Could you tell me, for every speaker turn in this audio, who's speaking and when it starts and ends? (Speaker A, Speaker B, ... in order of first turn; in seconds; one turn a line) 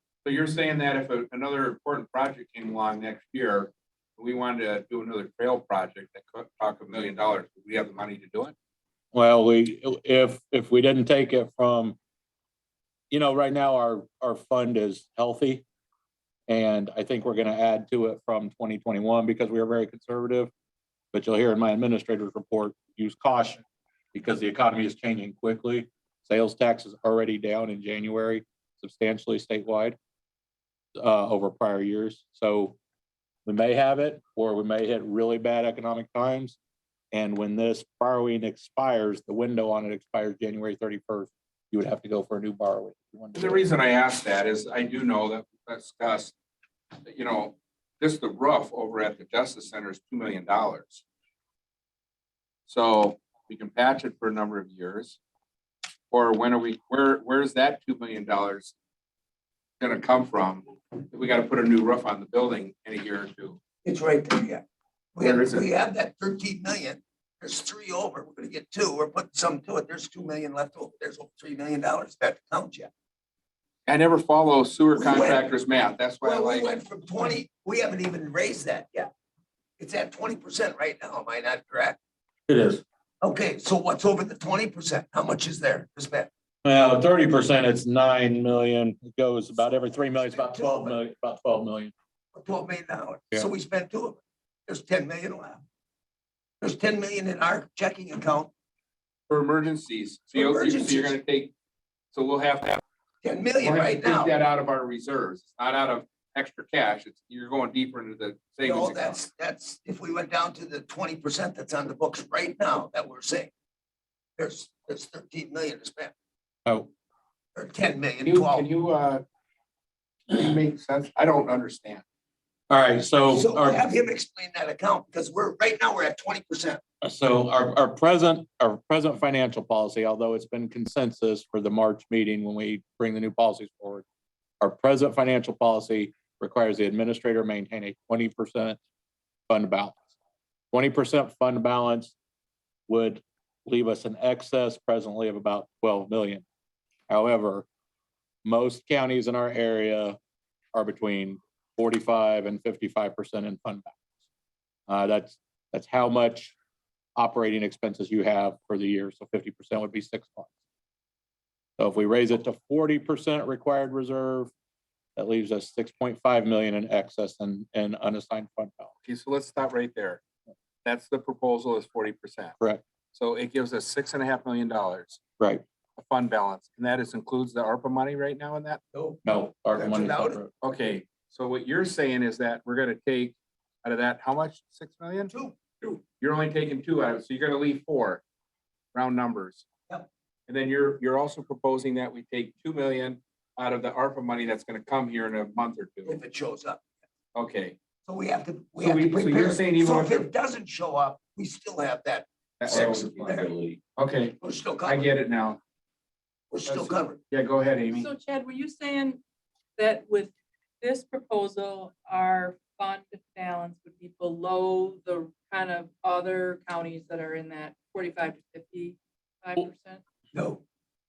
Speaker A: 0.2-8.5
Speaker B: 9.1-12.0
Speaker B: 13.1-15.7
Speaker B: 16.5-20.5
Speaker B: 21.1-23.6
Speaker B: 24.1-30.0
Speaker B: 31.0-32.8
Speaker B: 33.5-36.6
Speaker B: 37.1-43.7
Speaker A: 43.4-46.3
Speaker A: 47.0-51.0
Speaker A: 52.7-55.2
Speaker A: 56.1-58.7
Speaker A: 59.8-63.6
Speaker C: 63.8-64.6
Speaker C: 65.2-72.9
Speaker A: 65.2-65.7
Speaker A: 73.9-76.7
Speaker C: 75.0-75.5
Speaker C: 76.2-79.1
Speaker C: 79.8-82.0
Speaker B: 82.5-82.8
Speaker C: 83.2-86.3
Speaker B: 86.7-91.9
Speaker C: 90.2-91.0
Speaker C: 92.3-95.6
Speaker C: 96.6-98.5
Speaker A: 99.3-101.5
Speaker C: 100.3-101.2
Speaker A: 102.1-102.8
Speaker C: 103.2-104.3
Speaker A: 103.6-109.2
Speaker C: 108.6-113.5
Speaker C: 114.4-116.1
Speaker C: 117.5-118.7
Speaker A: 118.2-119.2
Speaker A: 120.3-122.0
Speaker B: 122.7-123.8
Speaker C: 123.3-126.8
Speaker B: 127.0-134.1
Speaker B: 134.6-138.8
Speaker B: 139.5-140.0
Speaker B: 140.7-142.2
Speaker B: 142.9-146.4
Speaker B: 147.1-147.7
Speaker B: 148.4-150.2
Speaker B: 150.7-154.0
Speaker B: 154.9-156.6
Speaker B: 157.2-160.5
Speaker B: 161.8-164.5
Speaker B: 165.2-168.9
Speaker A: 169.1-170.2
Speaker A: 170.8-172.6
Speaker A: 173.1-175.2
Speaker B: 175.4-175.6
Speaker A: 176.0-178.8
Speaker C: 178.9-180.4
Speaker B: 179.2-180.5
Speaker A: 180.6-185.3
Speaker C: 185.3-185.6
Speaker A: 185.8-188.2
Speaker A: 188.9-189.6
Speaker A: 190.5-196.2
Speaker C: 196.1-196.8
Speaker A: 197.3-197.8
Speaker C: 198.1-203.5
Speaker A: 198.8-200.3
Speaker A: 202.6-205.6
Speaker B: 202.7-203.8
Speaker C: 204.4-205.1
Speaker C: 206.5-207.2
Speaker A: 206.7-208.1
Speaker D: 207.9-209.2
Speaker D: 209.8-220.0
Speaker C: 220.3-220.6